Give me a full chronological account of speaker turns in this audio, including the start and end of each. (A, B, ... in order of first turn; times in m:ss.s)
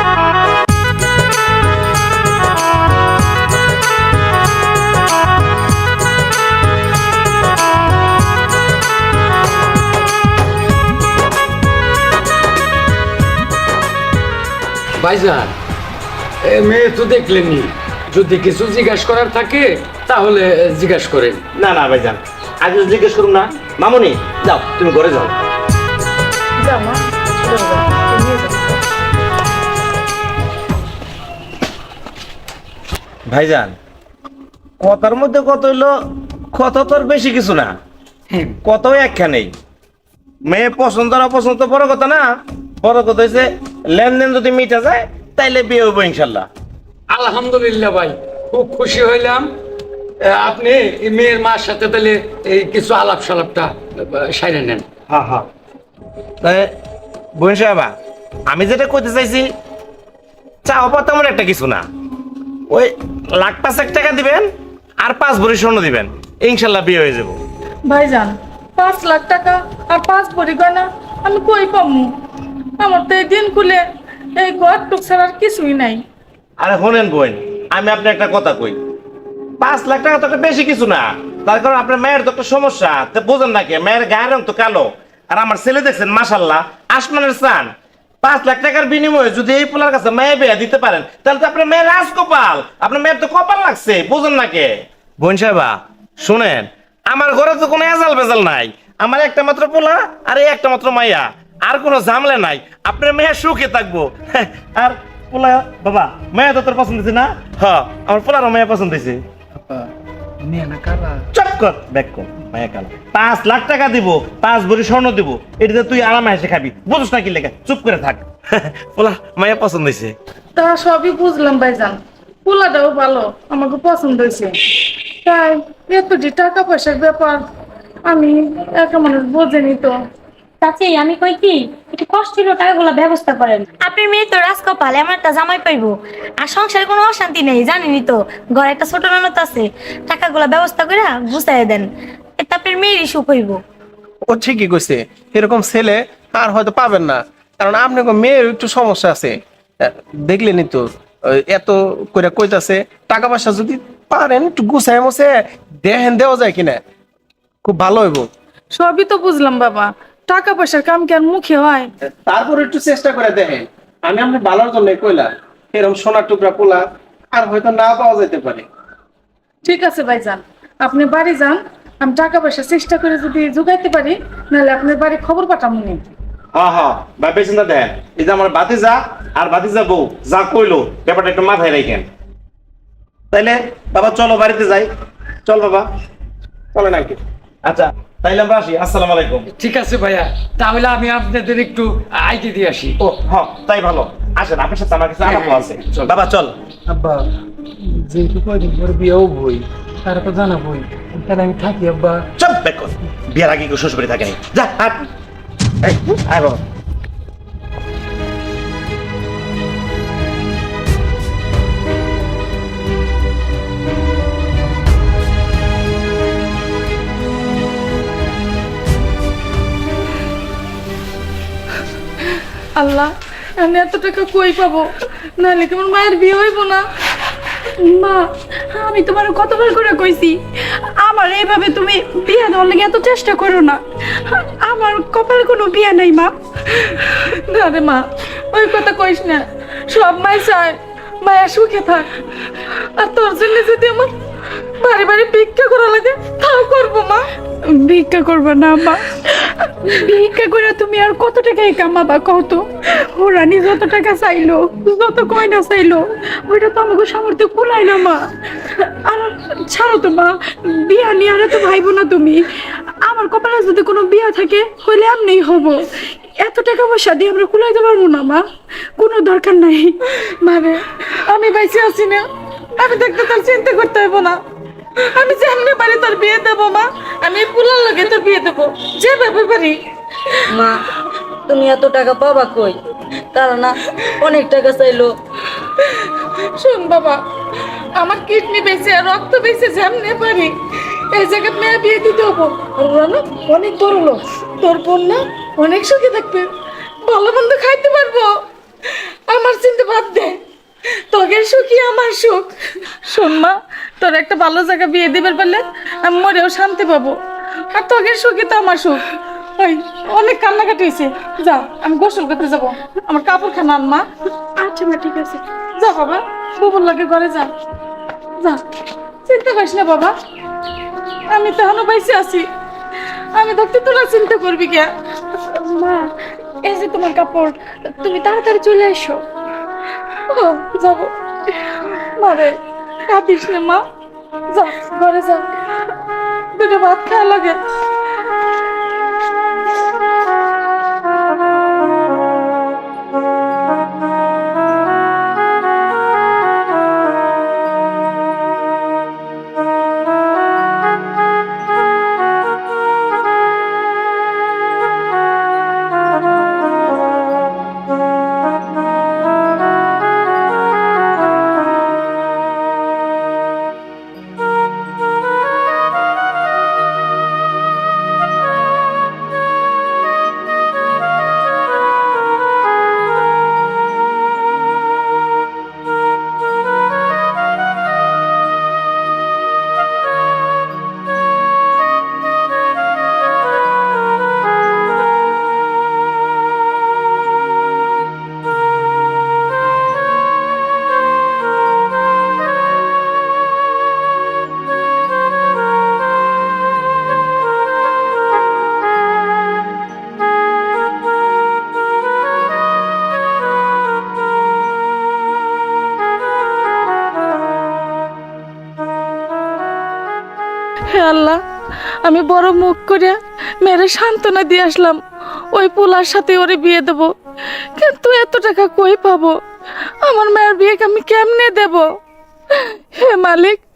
0:15.0-0:15.5 A
0:16.4-0:21.4 A
0:21.6-0:25.4 B
0:26.6-0:28.8 C
0:33.3-0:33.8 B
0:34.8-0:36.0 B
0:36.5-0:37.8 B
0:38.6-0:39.5 B
0:40.5-0:42.2 B
0:42.8-0:46.5 B
0:47.1-0:49.5 A
0:50.2-0:54.8 A
0:55.1-0:55.5 B
0:56.4-0:56.7 B
0:57.4-0:57.9 B
0:58.5-0:59.5 B
1:00.6-1:01.9 B
1:02.7-1:07.4 B
1:07.9-1:12.2 C
1:12.8-1:13.8 C
1:14.4-1:16.0 C
1:16.6-1:18.8 B
1:19.6-1:27.7 B
1:28.2-1:49.2 B
1:49.6-1:49.9 D
1:50.4-1:51.2 D
1:51.3-2:00.2 B
2:00.6-2:04.6 C
2:05.2-2:07.4 C
2:08.1-2:10.0 C
2:10.6-2:23.6 E
2:24.3-2:36.8 F
2:37.6-2:38.3 F
2:38.7-2:41.9 C
2:42.1-2:48.7 F
2:49.6-2:56.0 C
2:56.5-3:02.1 B
3:03.3-3:04.9 B
3:05.5-3:05.9 B
3:06.7-3:07.2 F
3:07.6-3:09.5 B
3:09.6-3:13.0 A
3:13.0-3:16.6 B
3:15.5-3:16.1 A
3:16.9-3:17.2 D
3:17.8-3:22.2 D
3:22.4-3:25.1 B
3:25.8-3:26.6 B
3:42.4-3:46.8 C
3:47.8-3:56.4 G
3:56.9-4:02.1 C
4:02.7-4:07.2 C
4:07.7-4:22.5 G
4:23.0-4:25.9 G
4:26.4-4:28.4 G
4:29.0-4:30.0 G
4:30.2-4:32.3 C
4:32.8-4:34.4 C
4:35.0-4:39.8 C
4:40.5-4:40.8 H
4:41.5-4:42.8 H
4:43.3-4:45.1 H
4:46.1-4:47.2 C
4:48.0-4:56.5 C
4:57.0-4:58.3 C
4:59.3-5:00.4 C
5:01.1-5:07.2 C
5:07.7-5:09.0 C
5:09.6-5:14.1 C
5:14.6-5:15.4 G
5:15.8-5:17.5 C
5:19.3-5:20.2 C
5:21.3-5:22.5 C
5:23.4-5:24.9 C
5:25.5-5:29.2 G
5:30.3-5:33.8 C
5:34.5-5:35.5 C
5:36.6-5:37.6 C
6:50.9-6:51.4 C
6:52.0-6:55.0 C
6:55.5-6:57.1 C
6:57.8-6:59.4 C
7:00.0-7:01.9 C
7:02.5-7:03.6 C